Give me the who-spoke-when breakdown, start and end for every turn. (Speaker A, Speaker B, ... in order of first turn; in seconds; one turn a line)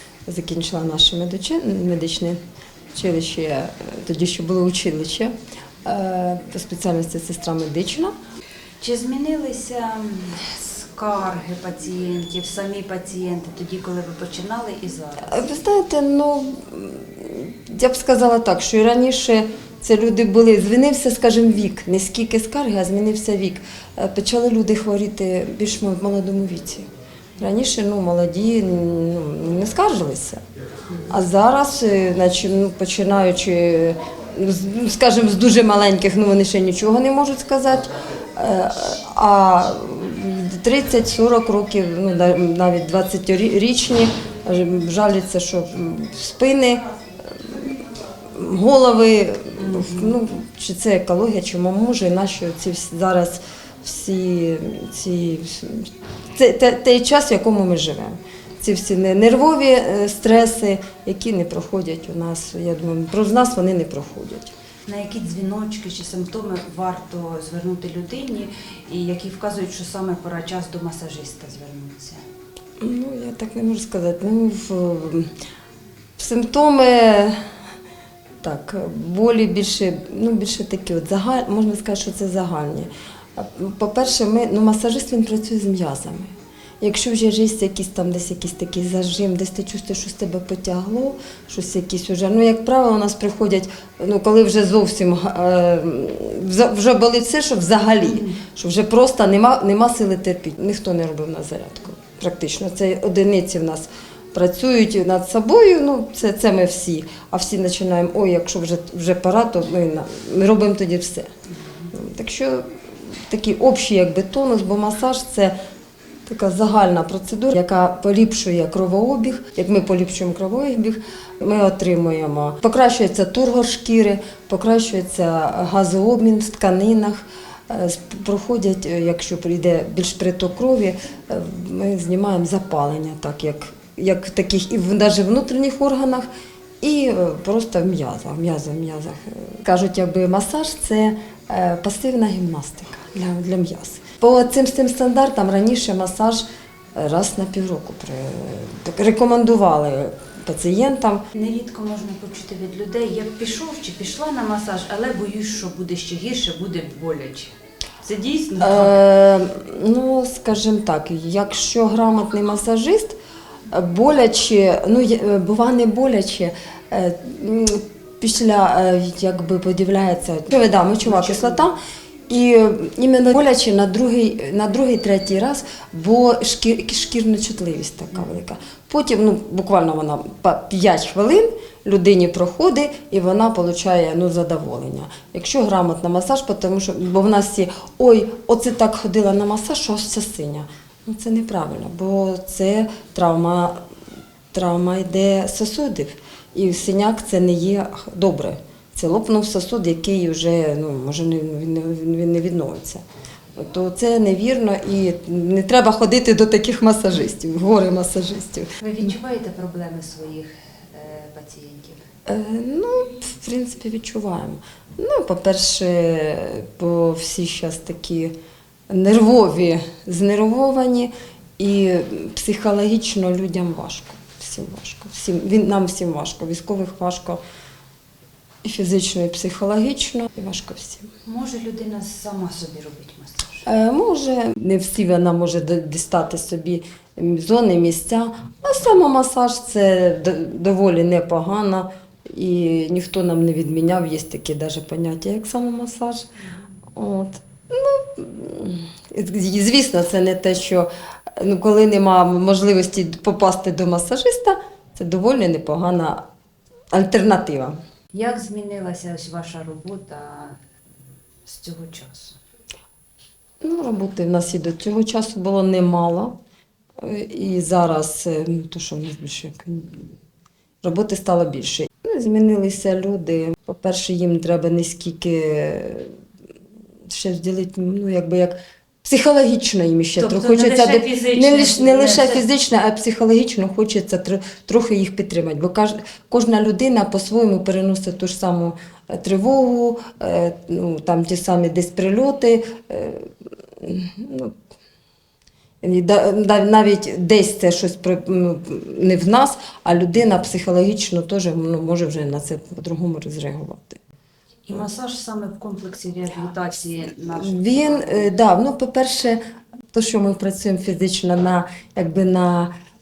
Speaker A: 0.3-2.4
Speaker A: 2.9-5.3
Speaker A: 5.8-8.1
Speaker B: 8.8-15.4
Speaker A: 15.3-26.9
Speaker A: 27.4-30.4
Speaker A: 31.1-47.8
Speaker A: 48.3-64.5
Speaker B: 49.6-50.1
Speaker B: 64.9-72.2
Speaker A: 72.8-75.3
Speaker A: 76.2-77.4
Speaker A: 78.4-111.3
Speaker B: 98.0-98.4
Speaker A: 111.9-115.5
Speaker A: 116.3-136.3
Speaker A: 136.8-146.4
Speaker A: 147.0-151.2
Speaker B: 151.3-159.0
Speaker A: 158.6-163.2
Speaker A: 163.7-171.8
Speaker B: 171.0-171.7
Speaker A: 172.3-193.8
Speaker A: 194.5-203.0
Speaker A: 203.6-208.7
Speaker B: 208.8-212.0
Speaker A: 212.3-218.3
Speaker A: 218.9-227.4
Speaker A: 228.6-231.1
Speaker B: 231.3-233.7
Speaker A: 233.7-246.3
Speaker A: 247.0-256.2
Speaker A: 256.9-257.8
Speaker B: 258.1-260.6
Speaker B: 261.4-262.4
Speaker A: 263.6-266.3
Speaker A: 267.0-270.1
Speaker A: 270.8-276.1
Speaker A: 277.1-293.3
Speaker B: 280.2-282.5
Speaker A: 293.8-294.5
Speaker A: 295.8-304.0
Speaker B: 304.7-308.3
Speaker A: 307.3-309.4
Speaker A: 309.9-312.7